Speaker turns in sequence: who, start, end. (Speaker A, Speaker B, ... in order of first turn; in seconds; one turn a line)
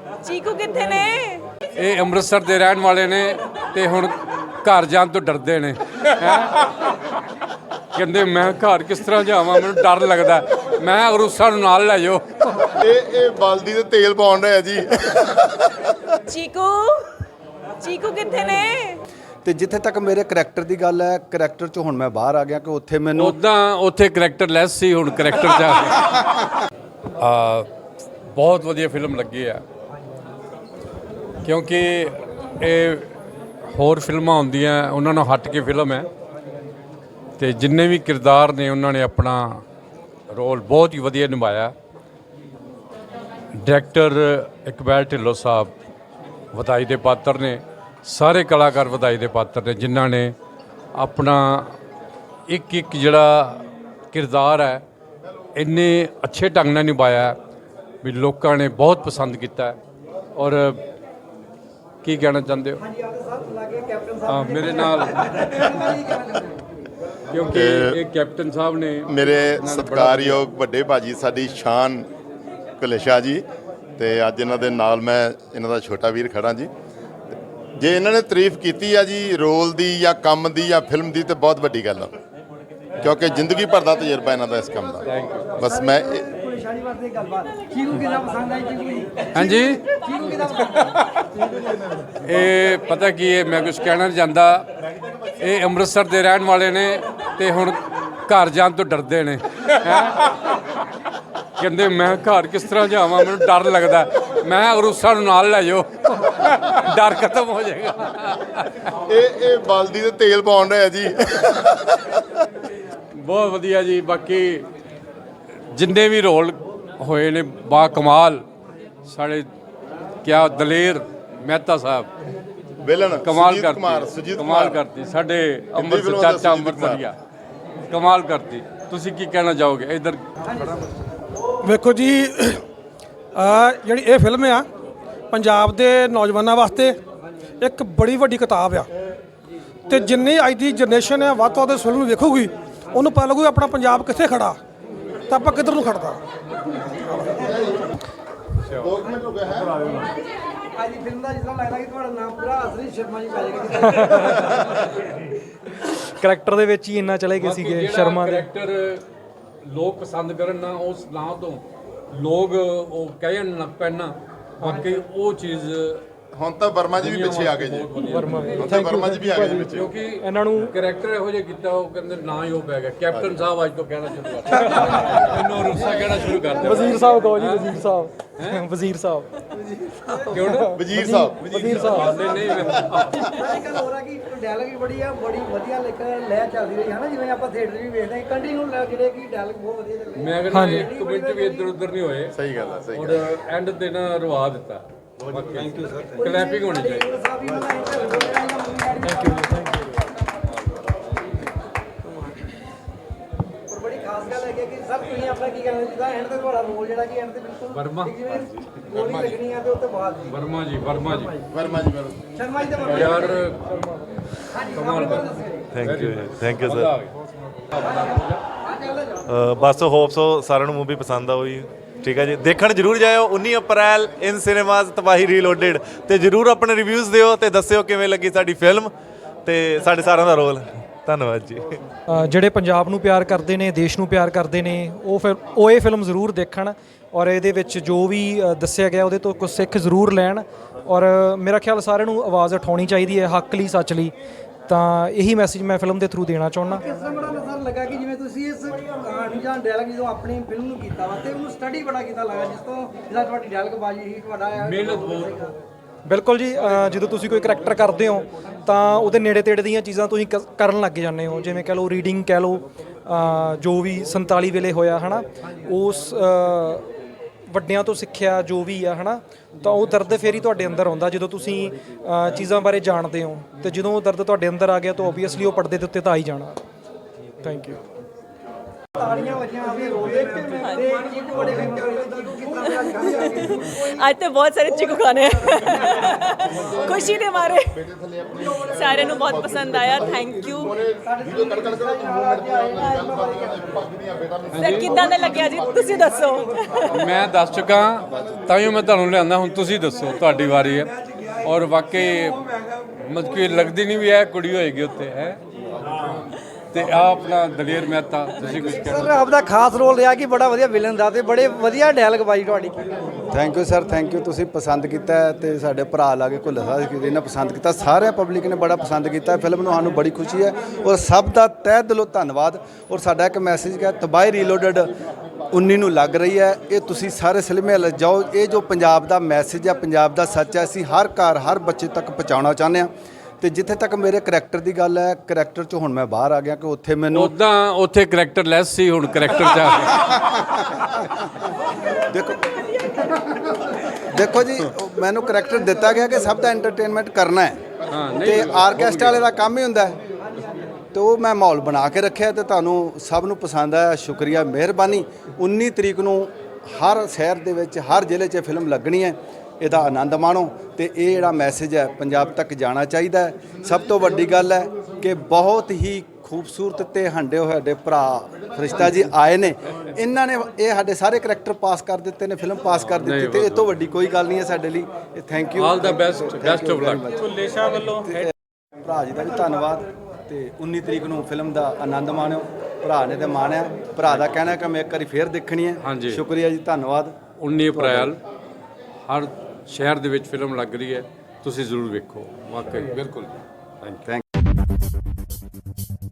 Speaker A: 0.2-1.4
Speaker B: 1.8-6.9
Speaker B: 8.0-12.5
Speaker C: 12.8-16.1
Speaker A: 16.3-17.1
Speaker A: 17.8-19.0
Speaker D: 19.4-23.4
Speaker B: 23.2-26.4
Speaker B: 27.2-27.7
Speaker B: 28.3-29.6
Speaker B: 31.4-33.1
Speaker B: 33.7-36.1
Speaker B: 37.4-39.6
Speaker B: 40.3-41.7
Speaker B: 43.5-45.7
Speaker B: 46.5-50.3
Speaker B: 51.0-51.8
Speaker B: 52.5-54.8
Speaker B: 55.6-57.4
Speaker B: 58.0-59.8
Speaker B: 60.4-60.8
Speaker B: 62.0-62.9
Speaker E: 62.9-66.6
Speaker B: 64.3-65.6
Speaker B: 67.3-70.4
Speaker C: 67.4-68.0
Speaker C: 69.1-72.1
Speaker C: 72.8-73.5
Speaker C: 74.0-76.7
Speaker C: 77.8-82.1
Speaker C: 83.0-86.3
Speaker B: 85.1-85.6
Speaker E: 85.6-90.9
Speaker B: 89.3-89.9
Speaker B: 92.2-94.7
Speaker B: 95.4-100.6
Speaker B: 101.6-108.8
Speaker C: 109.1-112.2
Speaker B: 113.1-114.7
Speaker B: 115.7-118.5
Speaker B: 119.1-119.5
Speaker B: 120.2-122.1
Speaker C: 122.8-124.8
Speaker B: 123.2-127.2
Speaker C: 125.7-127.0
Speaker B: 127.9-130.7
Speaker F: 131.6-132.6
Speaker F: 133.3-134.7
Speaker F: 135.3-137.0
Speaker F: 137.6-138.9
Speaker F: 139.9-144.6
Speaker F: 145.3-146.2
Speaker B: 148.6-149.0
Speaker E: 149.0-154.6
Speaker C: 149.1-149.6
Speaker G: 153.8-154.7
Speaker G: 155.8-158.5
Speaker B: 157.4-159.0
Speaker B: 159.6-166.0
Speaker C: 166.3-169.9
Speaker B: 167.0-168.8
Speaker G: 168.1-170.7
Speaker B: 169.7-177.8
Speaker E: 176.0-177.2
Speaker G: 176.6-179.3
Speaker B: 178.4-178.6
Speaker B: 180.3-180.8
Speaker G: 180.3-182.1
Speaker C: 180.8-182.1
Speaker B: 181.5-183.4
Speaker E: 183.2-191.7
Speaker B: 190.2-192.4
Speaker G: 190.5-190.9
Speaker C: 192.3-193.3
Speaker B: 192.9-197.2
Speaker E: 195.6-199.7
Speaker G: 199.1-199.4
Speaker E: 203.7-210.3
Speaker B: 207.7-208.1
Speaker C: 208.9-209.3
Speaker B: 210.3-211.4
Speaker C: 211.5-212.3
Speaker E: 212.3-213.4
Speaker B: 212.8-213.9
Speaker E: 214.5-215.7
Speaker B: 214.6-217.2
Speaker H: 215.7-216.9
Speaker B: 217.7-218.4
Speaker E: 218.7-219.2
Speaker H: 219.3-228.9
Speaker H: 229.4-231.8
Speaker G: 232.1-244.2
Speaker G: 244.7-246.8
Speaker E: 246.8-255.5
Speaker B: 254.6-255.4
Speaker G: 256.1-266.9
Speaker G: 267.5-276.6
Speaker G: 277.4-277.8
Speaker E: 279.0-286.9
Speaker F: 280.2-281.2
Speaker A: 280.6-280.9
Speaker A: 283.8-287.8
Speaker C: 286.5-296.0
Speaker E: 288.7-289.2
Speaker A: 288.8-290.8
Speaker E: 291.0-293.8
Speaker B: 294.5-295.0
Speaker A: 294.6-296.7
Speaker E: 294.8-297.0
Speaker B: 296.8-302.4
Speaker B: 303.0-305.4
Speaker B: 306.7-309.2
Speaker E: 308.7-313.2
Speaker D: 313.3-324.9
Speaker D: 325.5-337.3
Speaker B: 337.1-340.5
Speaker D: 342.0-342.5
Speaker D: 344.0-347.6
Speaker B: 347.9-349.3
Speaker D: 348.2-350.0
Speaker D: 350.9-378.3
Speaker B: 372.8-373.7
Speaker B: 375.6-377.1
Speaker D: 378.8-387.2
Speaker B: 384.1-384.5
Speaker B: 385.8-386.2
Speaker B: 387.4-388.2
Speaker D: 387.7-388.1
Speaker B: 389.1-394.0